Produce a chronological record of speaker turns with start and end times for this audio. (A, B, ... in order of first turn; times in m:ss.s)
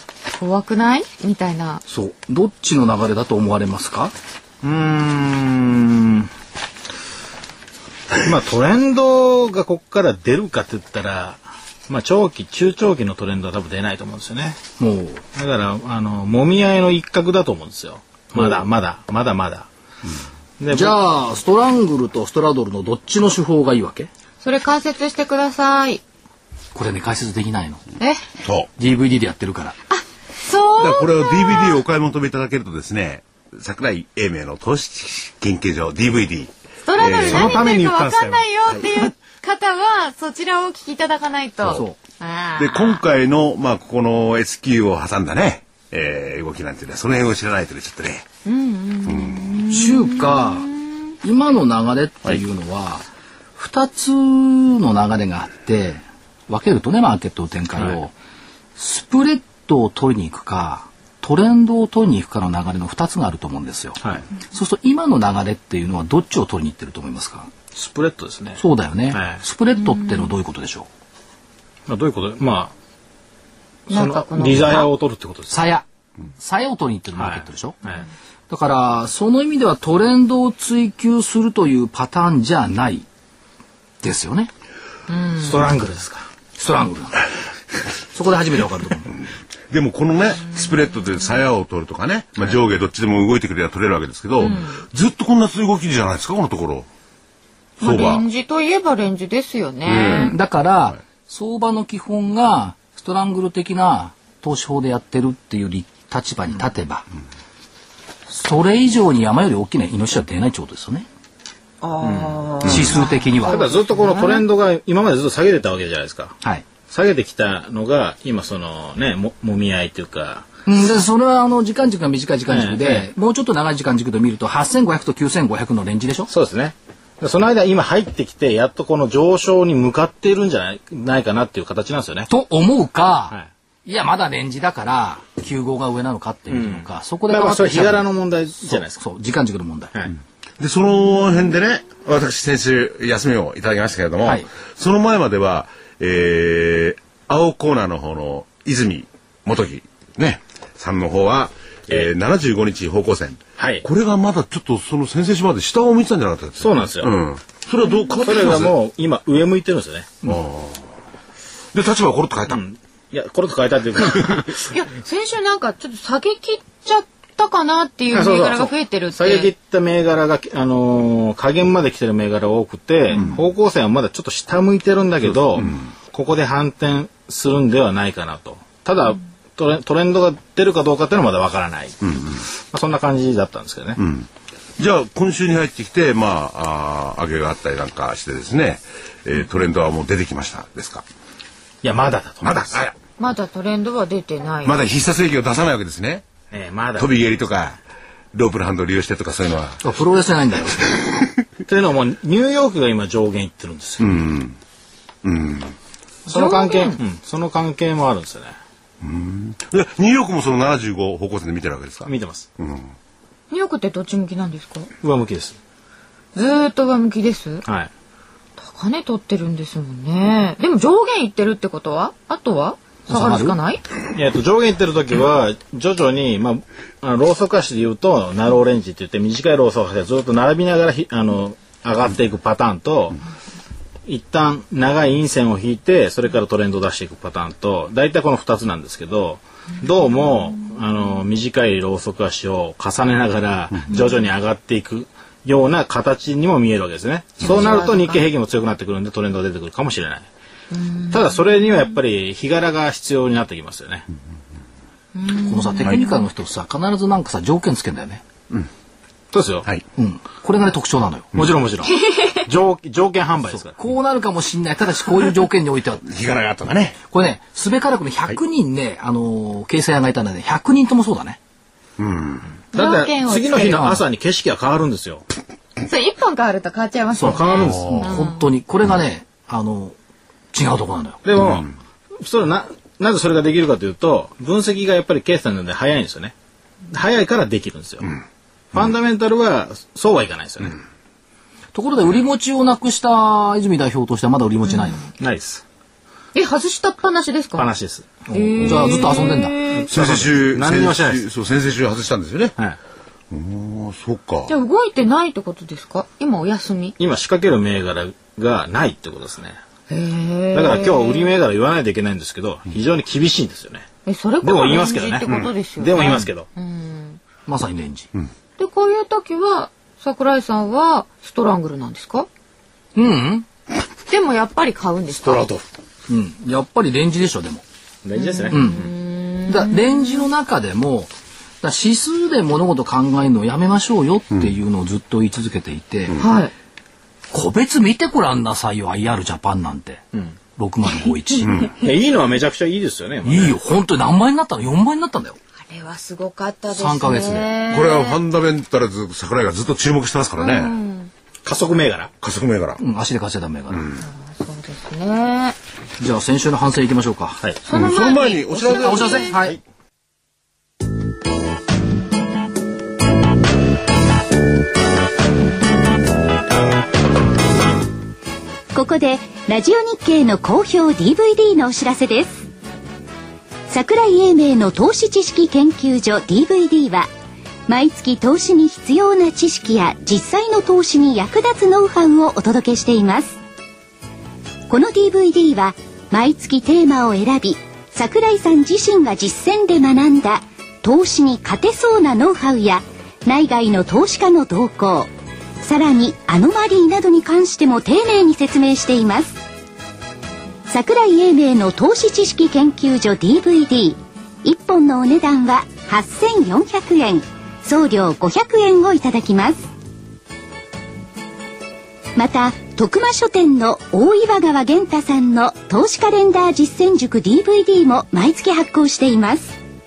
0:00.3-0:01.8 A
0:01.9-0:04.1 B
0:04.6-0:06.3 C
0:08.2-0:14.6 C
0:14.8-0:15.2 B
0:15.4-0:19.7 C
0:18.4-0:18.6 B
0:20.6-0:20.9 C
0:20.7-0:24.1 B
0:24.4-0:26.0 A
0:26.7-0:27.8 B
0:28.0-0:28.2 A
0:28.4-0:28.7 D
0:28.8-0:29.8 B
0:29.9-0:31.8 A
0:30.8-0:37.6 D
0:36.9-0:43.0 A
0:37.2-0:38.5 C
0:41.7-0:42.0 B
0:42.6-0:48.2 D
0:48.5-0:50.9 A
0:49.1-0:49.6 D
0:49.7-0:50.7 B
0:51.2-0:53.0 B
0:53.6-0:58.1 B
0:58.8-1:07.5 B
1:07.7-1:09.4 C
1:08.6-1:10.9 B
1:09.9-1:10.3 A
1:11.9-1:12.7 C
1:13.9-1:15.6 C
1:13.9-1:14.9 A
1:15.5-1:15.9 B
1:16.4-1:17.8 B
1:17.2-1:18.0 C
1:18.5-1:23.1 B
1:24.0-1:24.5 B
1:25.1-1:25.4 A
1:25.4-1:26.3 C
1:26.6-1:27.2 B
1:28.1-1:29.1 B
1:29.7-1:36.9 D
1:34.4-1:34.8 A
1:37.8-1:38.2 D
1:37.8-1:40.4 A
1:39.9-1:40.3 D
1:40.0-1:47.0 B
1:48.3-1:51.1 B
1:51.8-1:54.4 A
1:52.0-2:00.5 C
1:52.6-1:53.6 B
2:00.7-2:06.3 B
2:02.5-2:03.1 C
2:06.3-2:12.3 C
2:12.3-2:19.9 B
2:16.5-2:19.0 C
2:20.6-2:38.7 D
2:24.2-2:24.5 B
2:33.6-2:33.9 C
2:36.6-2:37.1 C
2:38.2-2:40.4 C
2:40.3-2:40.8 D
2:41.7-2:42.6 D
2:42.5-2:44.7 C
2:44.7-2:49.5 A
2:48.1-3:04.0 C
2:55.6-2:55.8 D
3:02.0-3:02.3 D
3:04.0-3:04.3 D
3:04.8-3:11.0 D
3:11.8-3:12.8 C
3:12.4-3:12.9 D
3:13.2-3:14.9 A
3:14.6-3:16.2 D
3:16.5-3:17.4 C
3:17.0-3:17.8 D
3:18.3-3:19.8 D
3:19.8-3:21.0 B
3:21.7-3:24.2 C
3:24.0-3:24.6 D
3:25.2-3:25.7 D
3:26.3-3:27.0 A
3:26.3-3:28.6 C
3:29.0-3:32.9 D
3:32.1-3:32.5 C
3:33.5-3:34.9 A
3:35.0-3:35.6 C
3:36.4-3:37.7 A
3:37.7-3:37.9 C
3:38.6-3:43.8 A
3:43.1-3:43.6 B
3:44.1-3:53.2 C
3:54.1-4:10.3 C
4:07.4-4:08.3 A
4:10.7-4:11.4 A
4:11.1-4:14.1 C
4:15.2-4:16.2 A
4:15.4-4:18.2 B
4:19.3-4:19.7 C
4:20.0-4:21.5 B
4:21.4-4:23.8 C
4:22.1-4:22.5 A
4:23.5-4:26.1 B
4:26.0-4:27.0 D
4:27.1-4:31.4 B
4:32.0-4:32.5 D
4:32.7-4:35.2 C
4:32.7-4:33.9 A
4:33.6-4:34.0 B
4:35.8-4:38.5 A
4:37.2-4:38.1 C
4:37.2-4:40.0 B
4:40.5-4:41.2 B
4:41.2-4:41.7 C
4:41.4-4:41.7 D
4:42.2-4:46.4 C
4:46.9-4:48.1 C
4:48.7-4:50.8 C
4:51.7-4:55.0 B
4:54.7-4:55.0 A
4:55.2-4:55.6 C
4:56.4-4:57.7 A
4:57.6-4:58.3 C
4:58.3-4:59.9 A
4:58.6-4:59.6 B
4:59.7-5:01.3 C
4:59.9-5:02.5 D
5:03.3-5:04.5 D
5:04.5-5:07.0 A
5:07.0-5:09.6 C
5:09.9-5:11.4 A
5:10.5-5:13.9 C
5:14.1-5:17.2 A
5:14.4-5:16.5 C
5:17.5-5:18.1 B
5:18.6-5:22.3 A
5:23.0-5:23.5 B
5:24.1-5:25.5 A
5:25.2-5:25.6 C
5:26.1-5:27.6 B
5:28.0-5:28.9 C
5:28.2-5:30.3 A
5:28.5-5:28.9 B
5:29.5-5:31.1 B
5:31.6-5:36.2 B
5:36.2-5:36.5 A
5:37.3-5:40.0 B
5:40.6-5:41.7 B
5:41.4-5:41.8 D
5:41.8-5:43.6 C
5:43.2-5:45.4 B
5:45.7-5:48.2 A
5:46.7-5:47.5 B
5:47.7-5:50.7 D
5:50.4-5:51.1 A
5:51.4-5:52.1 C
5:52.2-5:52.8 D
5:52.8-5:53.9 B
5:53.7-5:54.0 D
5:54.0-5:55.6 A
5:56.0-5:57.4 B
5:57.7-5:59.4 A
5:57.7-5:59.4 D
5:58.8-5:59.6 B
6:08.7-6:12.5 E
6:13.7-6:17.1 E
6:17.7-6:23.4 E
6:24.7-6:35.1 E
6:35.6-6:39.4 E
6:40.7-6:49.7 E
6:52.2-6:59.6 E